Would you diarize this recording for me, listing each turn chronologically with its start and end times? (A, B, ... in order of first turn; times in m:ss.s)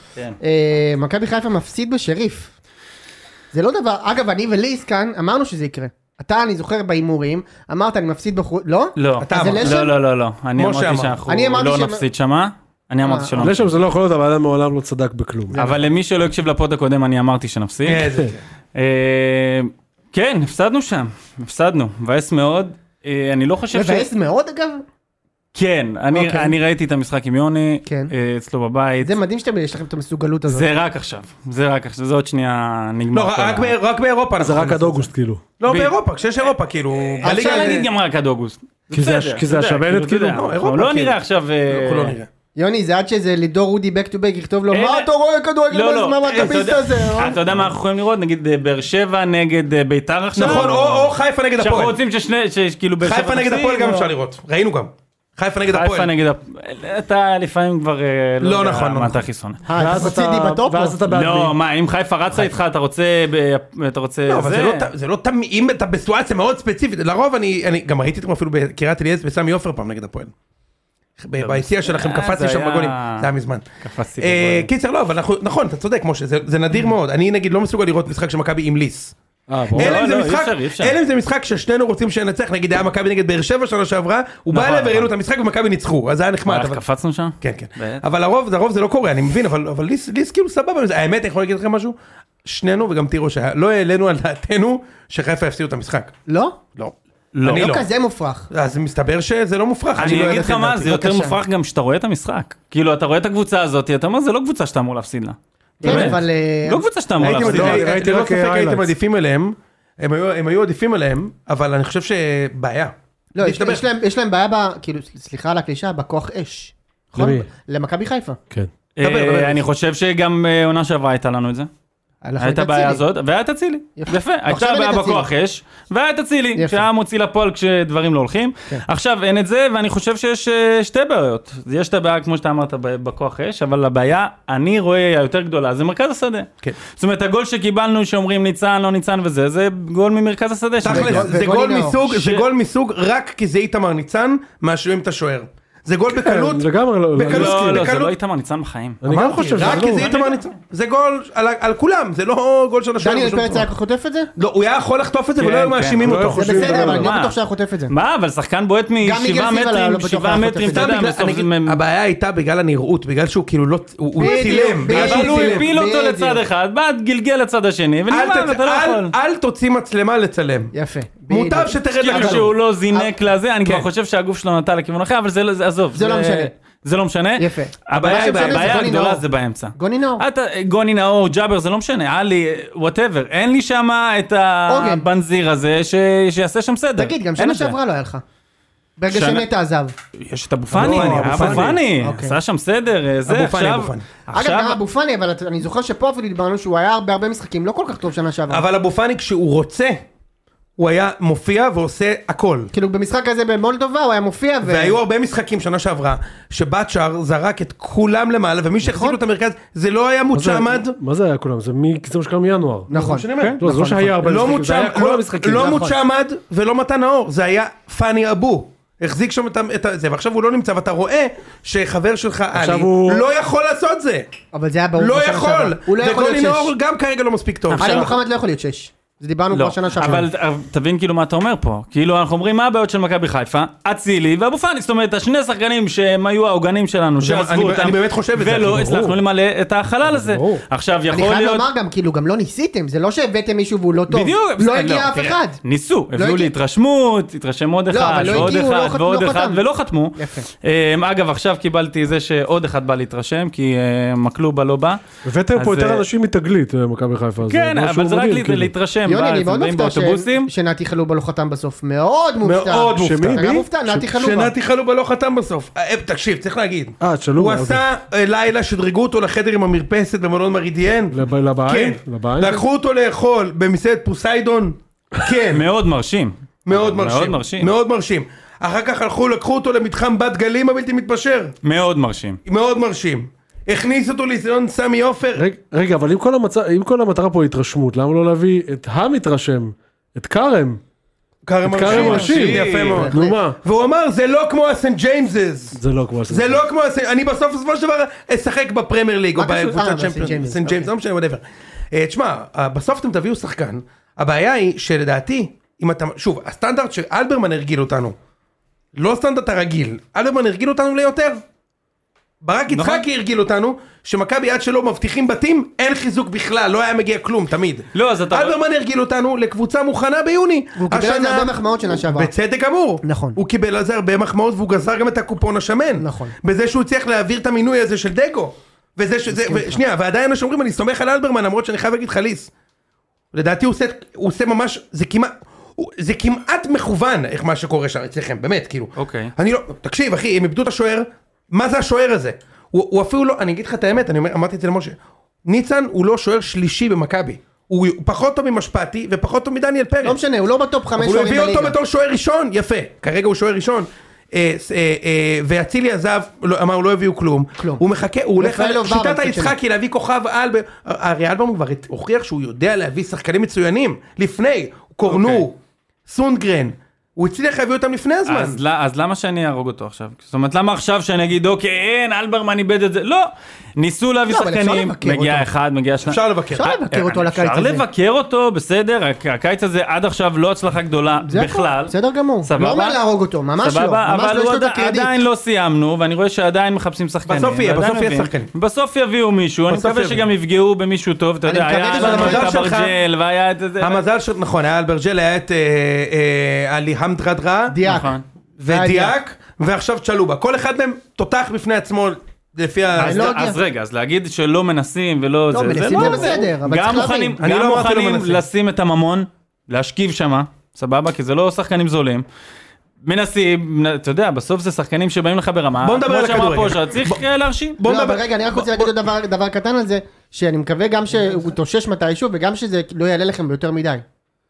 0:00.4-0:02.5 A
0:03.5-0:09.9 A
0:09.0-0:13.7 B
0:09.2-0:09.9 C
0:10.6-0:11.2 C
0:11.3-0:12.0 A
0:13.0-0:13.4 A
0:13.4-0:15.6 D
0:15.5-0:15.8 A
0:15.5-0:18.1 B
0:17.8-0:18.4 C
0:18.8-0:24.1 B
0:23.7-0:24.8 A
0:25.5-0:29.2 B
0:26.1-0:26.6 A
0:27.9-0:28.1 A
0:29.0-0:30.7 A
0:30.5-0:33.8 B
0:33.1-0:35.1 C
0:34.4-0:35.4 D
0:35.6-0:37.9 C
0:35.7-0:36.0 B
0:36.9-0:42.2 B
0:37.2-0:37.8 A
0:38.9-0:40.5 D
0:40.3-0:41.2 C
0:41.7-0:42.3 C
0:42.6-0:47.4 A
0:44.7-0:45.1 B
0:45.7-0:54.1 B
0:50.4-0:51.9 C
0:53.0-0:56.1 C
0:55.7-0:59.6 B
0:58.4-0:59.2 C
0:59.7-1:01.0 A
0:59.7-1:01.6 D
1:01.1-1:04.9 B
1:04.3-1:10.3 C
1:11.2-1:13.7 C
1:11.4-1:13.3 B
1:13.8-1:14.7 B
1:14.2-1:19.2 C
1:19.5-1:20.0 D
1:19.7-1:26.8 C
1:19.8-1:21.0 B
1:24.5-1:25.1 B
1:26.5-1:28.0 B
1:27.4-1:36.1 C
1:36.3-1:36.6 A
1:36.8-1:37.9 C
1:37.3-1:37.8 B
1:37.4-1:38.5 A
1:38.5-1:41.0 C
1:40.0-1:47.9 B
1:40.0-1:41.4 A
1:45.8-1:46.8 A
1:45.8-1:46.1 C
1:47.2-1:53.9 C
1:47.3-1:48.9 D
1:53.4-1:58.4 A
1:57.2-1:57.5 D
1:59.0-2:01.7 B
1:59.0-1:59.6 C
2:02.2-2:03.0 A
2:02.4-2:21.3 B
2:04.0-2:05.3 A
2:06.6-2:06.8 A
2:20.8-2:26.6 C
2:20.9-2:22.0 A
2:22.0-2:22.4 B
2:26.1-2:27.9 D
2:27.2-2:28.1 C
2:27.2-2:29.0 B
2:29.0-2:30.1 D
2:29.1-2:33.7 C
2:29.6-2:30.4 B
2:33.0-2:34.3 A
2:34.4-2:36.9 C
2:35.4-2:37.4 B
2:36.0-2:37.1 D
2:36.3-2:37.9 A
2:37.9-2:41.8 B
2:39.0-2:41.0 A
2:40.6-2:45.7 C
2:44.2-2:46.4 A
2:44.2-2:49.1 B
2:48.1-2:50.7 C
2:50.7-2:53.1 A
2:51.3-2:52.5 C
2:52.0-3:07.8 B
2:56.0-2:56.5 A
2:57.4-2:59.2 A
2:57.9-2:59.0 C
2:59.8-3:00.2 A
3:04.7-3:05.1 A
3:07.0-3:08.2 A
3:09.0-3:09.9 A
3:09.1-3:09.5 B
3:10.2-3:14.8 B
3:10.7-3:11.8 D
3:10.7-3:11.8 C
3:12.0-3:12.4 A
3:13.3-3:14.0 C
3:14.3-3:18.7 A
3:18.5-3:20.0 C
3:20.8-3:22.7 C
3:22.7-3:25.0 A
3:24.6-3:31.0 C
3:28.8-3:29.2 A
3:30.3-3:32.9 D
3:32.9-3:34.2 A
3:32.9-3:33.6 C
3:33.6-3:36.0 D
3:34.2-3:44.3 C
3:42.5-3:43.3 D
3:44.5-3:46.7 A
3:45.0-3:48.1 C
3:47.7-3:48.2 B
3:47.8-3:50.3 A
3:49.5-4:01.6 B
3:57.2-3:58.9 C
3:58.6-3:59.2 D
4:00.0-4:00.6 D
4:01.1-4:05.6 A
4:04.1-4:15.0 B
4:06.1-4:06.5 A
4:07.9-4:09.6 A
4:10.2-4:10.5 A
4:15.2-4:18.7 D
4:15.6-4:16.0 B
4:17.4-4:20.5 B
4:19.1-4:24.5 A
4:22.4-4:23.4 C
4:23.0-4:24.1 D
4:24.1-4:35.6 C
4:27.0-4:27.8 D
4:31.1-4:32.6 D
4:35.5-4:37.7 B
4:36.7-4:41.6 C
4:41.6-4:42.4 B
4:42.5-4:45.5 C
4:45.4-4:50.8 D
4:51.4-4:55.8 C
4:51.6-4:53.6 D
4:51.8-4:53.1 B
4:52.4-4:53.4 A
4:55.7-4:56.6 D
4:56.3-5:08.2 C
4:59.4-5:00.9 A
5:09.0-5:11.4 C
5:12.4-5:32.5 C
5:12.7-5:13.0 B
5:17.9-5:18.6 B
5:20.8-5:22.3 A
5:23.0-5:23.4 A
5:26.0-5:26.4 A
5:29.3-5:29.8 A
5:33.3-5:50.2 C
5:39.0-5:39.3 B
5:50.0-5:51.8 A
5:51.0-6:08.6 C
5:58.4-5:59.6 A
6:05.1-6:05.5 B
6:08.3-6:23.0 B
6:14.3-6:15.5 A
6:16.0-6:16.7 C
6:16.5-6:17.8 A
6:21.2-6:25.1 A
6:23.6-6:34.0 B
6:27.3-6:28.5 C
6:29.7-6:30.2 C
6:31.5-6:32.6 A
6:31.9-6:33.0 C
6:33.8-6:37.8 C
6:37.7-6:38.2 A
6:37.8-6:38.2 B
6:38.6-6:43.4 C
6:38.7-6:39.2 A
6:43.0-6:52.2 B
6:43.0-6:43.6 A
6:45.5-6:47.4 A
6:45.9-6:46.4 C
6:47.4-6:48.4 C
6:53.0-6:57.8 B
6:55.8-6:57.2 C
6:57.8-6:58.9 C
6:57.8-7:04.0 A